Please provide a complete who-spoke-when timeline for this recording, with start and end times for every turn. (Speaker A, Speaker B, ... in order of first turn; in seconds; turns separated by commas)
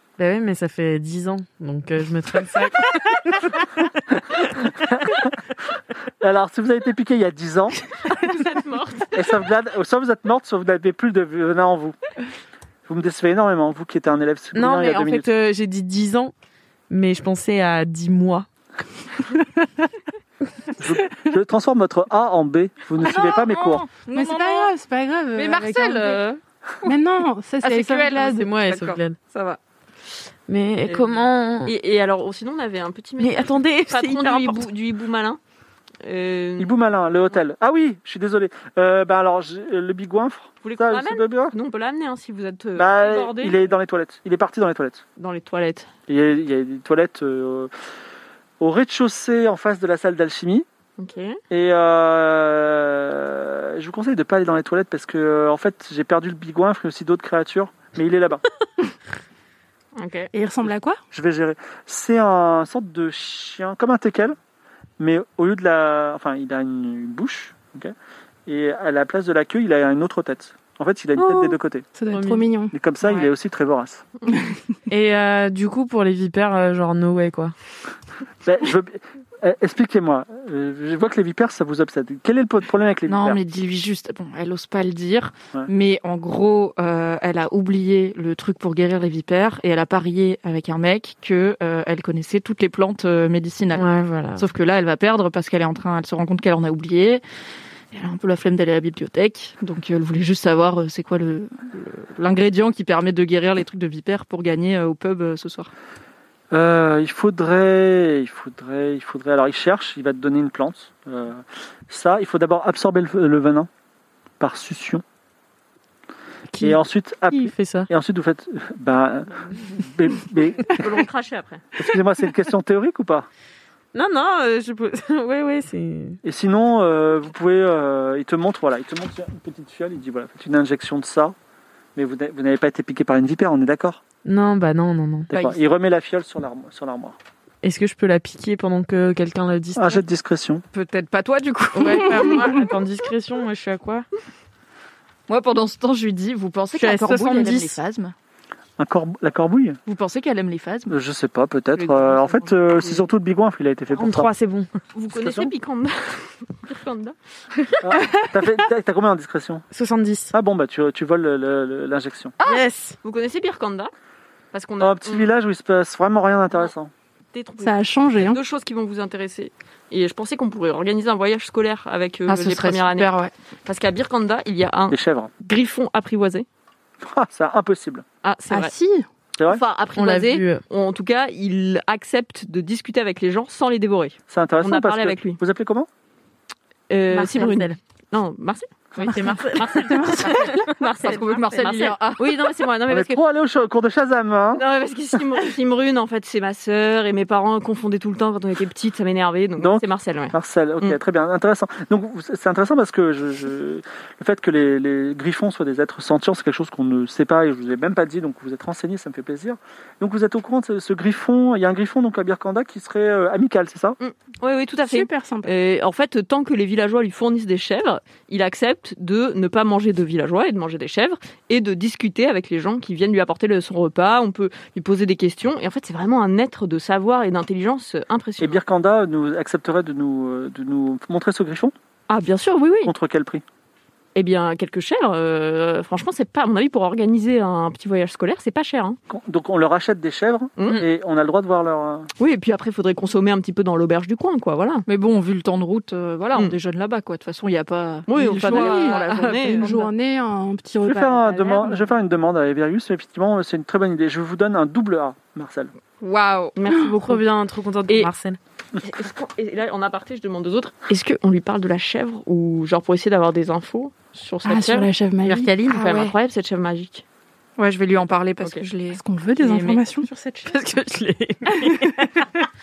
Speaker A: 0.2-3.9, Speaker B: 4.4-5.3, Speaker B: 6.2-7.8, Speaker C: 8.1-9.4, Speaker B: 9.1-12.0, Speaker B: 12.9-15.3, Speaker A: 14.5-16.3, Speaker A: 16.9-18.5, Speaker B: 20.8-23.9, Speaker D: 23.0-24.7, Speaker E: 24.1-26.2, Speaker D: 25.4-26.4, Speaker E: 26.8-28.5, Speaker D: 27.6-29.6, Speaker A: 28.2-29.2, Speaker A: 30.5-31.7, Speaker C: 30.9-35.4, Speaker A: 33.2-34.7, Speaker C: 36.0-36.7, Speaker B: 36.6-41.5, Speaker C: 40.6-43.6, Speaker B: 42.8-45.0, Speaker C: 45.2-45.9, Speaker B: 46.1-47.7, Speaker B: 48.6-50.7, Speaker C: 51.0-51.4, Speaker B: 51.5-58.4, Speaker C: 60.0-60.3, Speaker E: 60.3-61.0, Speaker B: 61.1-64.4, Speaker B: 65.0-67.9, Speaker B: 68.5-71.9, Speaker A: 71.2-71.6, Speaker E: 72.0-72.7, Speaker A: 72.1-72.5, Speaker B: 72.7-74.0, Speaker A: 74.9-77.5, Speaker B: 78.4-83.4, Speaker D: 83.1-97.2, Speaker A: 93.7-94.5, Speaker D: 97.9-105.7, Speaker B: 106.5-113.7, Speaker B: 114.4-115.0, Speaker A: 116.5-116.8, Speaker B: 116.6-120.9, Speaker A: 117.3-117.9, Speaker C: 120.7-121.7, Speaker B: 121.8-123.3, Speaker A: 123.9-126.2, Speaker B: 126.2-131.3, Speaker B: 132.0-134.0, Speaker A: 134.2-135.3, Speaker B: 135.3-137.2, Speaker D: 135.3-135.6, Speaker A: 137.6-140.0, Speaker B: 139.8-140.6, Speaker D: 140.7-142.6, Speaker A: 141.8-144.1, Speaker E: 142.1-142.5, Speaker D: 145.3-148.1, Speaker A: 146.8-147.8, Speaker B: 148.8-149.8, Speaker D: 149.9-151.0, Speaker B: 150.9-154.3, Speaker D: 151.8-153.0, Speaker A: 153.9-154.7, Speaker C: 154.9-157.2, Speaker B: 155.1-155.5, Speaker B: 157.8-159.7, Speaker A: 159.7-160.3, Speaker B: 160.3-162.3, Speaker A: 162.4-163.0, Speaker C: 162.5-163.9, Speaker C: 164.5-165.3, Speaker B: 164.8-166.9, Speaker C: 167.3-173.1, Speaker E: 167.6-168.4, Speaker D: 172.3-173.3, Speaker C: 173.7-176.5, Speaker B: 174.9-175.3, Speaker B: 177.0-178.1, Speaker C: 178.2-178.7, Speaker E: 178.5-179.1, Speaker C: 179.5-185.4, Speaker A: 179.9-180.6, Speaker B: 184.3-185.9, Speaker C: 186.9-193.2, Speaker A: 187.1-187.8, Speaker A: 189.0-191.2, Speaker E: 189.1-190.5, Speaker D: 191.0-192.4, Speaker B: 192.9-194.6, Speaker C: 194.5-201.0, Speaker B: 199.6-214.0, Speaker C: 214.0-228.6, Speaker E: 214.8-215.5, Speaker B: 228.4-231.7, Speaker C: 232.1-232.9, Speaker B: 232.8-233.4, Speaker C: 234.2-239.0, Speaker B: 239.1-242.1, Speaker C: 240.6-240.8, Speaker C: 242.2-244.8, Speaker D: 244.9-249.9, Speaker C: 248.1-249.9, Speaker E: 248.2-251.9, Speaker B: 250.8-255.7, Speaker D: 256.0-256.6, Speaker C: 256.6-257.2, Speaker A: 257.0-258.4, Speaker C: 258.8-264.9, Speaker E: 264.4-265.5, Speaker A: 265.3-265.6, Speaker C: 265.5-267.0, Speaker D: 265.7-266.1, Speaker D: 267.6-269.0, Speaker C: 268.4-268.7, Speaker E: 268.9-270.1, Speaker A: 269.4-272.3, Speaker E: 271.5-272.0